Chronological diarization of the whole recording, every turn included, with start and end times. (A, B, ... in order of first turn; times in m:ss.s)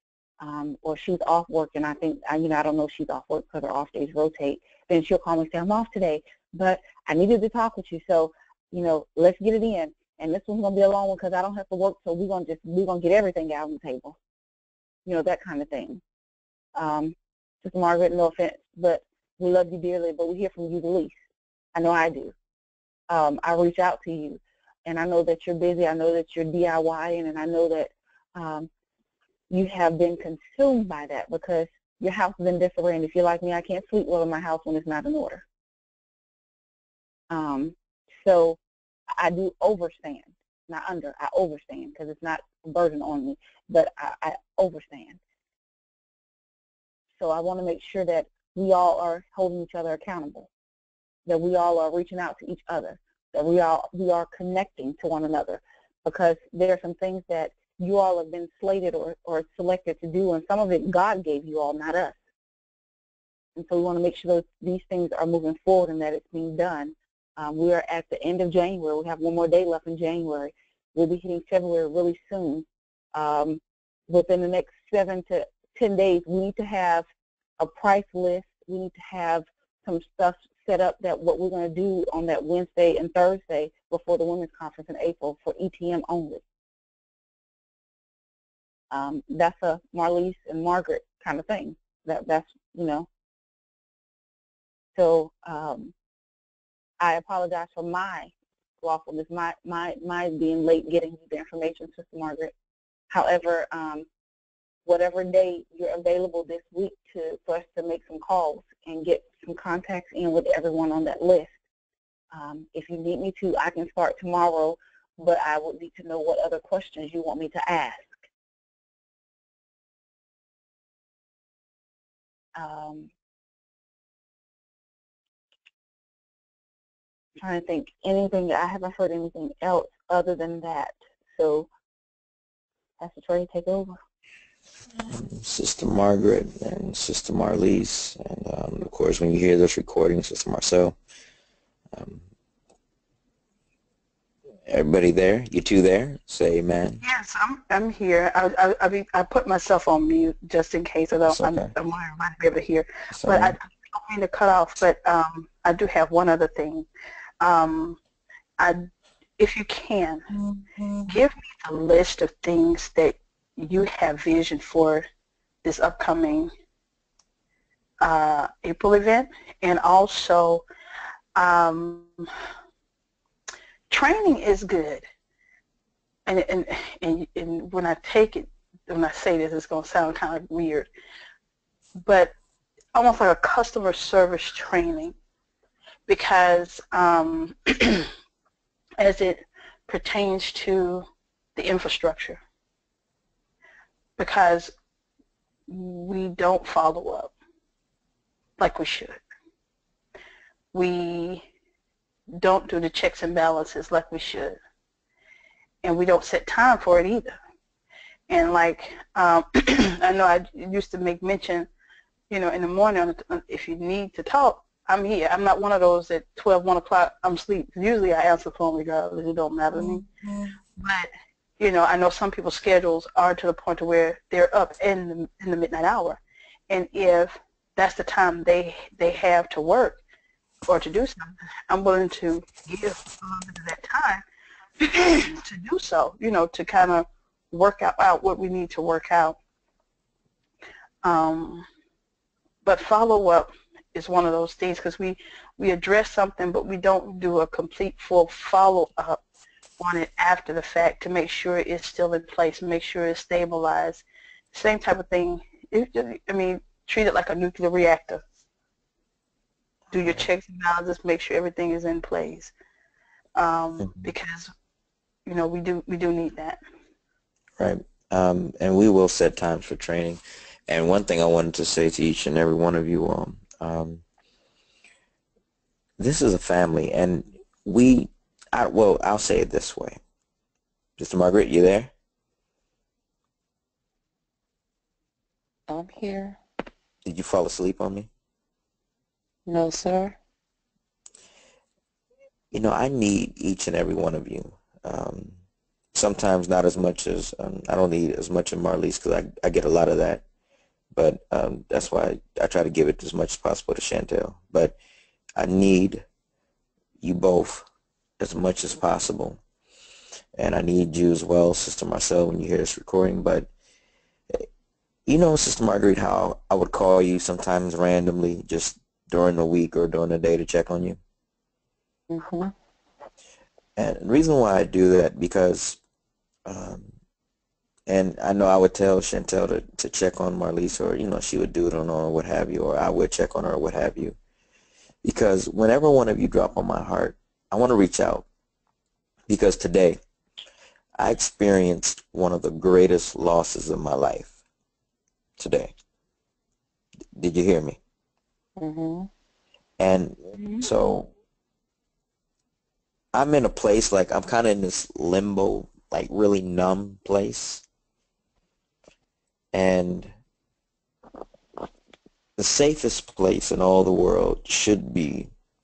0:00.4-0:14.2 A
0:15.0-0:16.0 A
0:16.8-0:21.2 A
0:21.7-0:22.3 A
0:23.1-0:28.7 A
0:29.5-0:35.4 A
0:37.3-0:38.6 A
0:39.1-0:45.2 A
0:47.2-0:50.5 A
0:51.2-1:02.2 A
1:03.6-1:17.0 A
1:17.6-1:26.4 A
1:28.9-1:33.1 A
1:34.9-1:35.9 A
1:37.0-1:42.5 A
1:43.1-1:44.0 A
1:44.8-1:51.5 A
1:52.3-1:58.2 A
2:02.6-2:03.1 A
2:07.4-2:11.7 A
2:13.0-2:14.0 A
2:15.1-2:21.0 B
2:21.9-2:22.2 B
2:24.7-2:27.0 B
2:27.0-2:36.9 C
2:31.3-2:31.7 B
2:33.1-2:33.6 B
2:37.4-2:38.0 C
2:38.6-2:40.2 C
2:41.1-2:45.0 C
2:45.6-2:46.5 C
2:48.0-2:50.6 C
2:51.3-2:52.2 C
2:53.9-2:55.0 C
2:56.2-3:00.9 C
3:02.0-3:02.3 C
3:02.9-3:05.1 C
3:06.1-3:08.1 C
3:09.0-3:11.0 C
3:11.6-3:12.4 C
3:14.2-3:14.7 C
3:15.7-3:17.3 C
3:18.6-3:19.2 C
3:20.7-3:21.4 C
3:22.3-3:24.6 C
3:25.8-3:27.4 C
3:28.3-3:31.7 C
3:32.3-3:40.1 C
3:40.7-3:50.0 C
3:50.7-3:54.2 C
3:54.8-3:59.4 C
4:01.0-4:01.6 C
4:02.6-4:09.2 C
4:09.8-4:18.2 C
4:19.9-4:22.5 C
4:23.3-4:24.5 C
4:25.2-4:26.6 C
4:27.6-4:34.0 B
4:36.0-4:40.0 B
4:41.0-4:41.9 B
4:45.7-4:46.4 D
4:47.0-4:48.1 B
4:49.4-4:50.2 D
4:52.5-4:55.4 B
4:55.9-5:00.2 B
5:00.9-5:04.8 B
5:05.4-5:06.0 B
5:07.0-5:07.6 B
5:08.2-5:09.4 B
5:10.4-5:13.5 B
5:15.1-5:21.0 B
5:22.1-5:22.5 D
5:23.8-5:25.8 B
5:26.4-5:26.9 B
5:27.9-5:34.2 B
5:35.0-5:38.2 B
5:39.3-5:40.0 B
5:41.0-5:44.3 B
5:45.4-5:45.7 B
5:47.1-5:47.8 B
5:48.6-5:49.1 D
5:49.8-5:51.1 B
5:53.1-5:57.6 B
5:59.5-6:00.1 B
6:02.4-6:05.3 B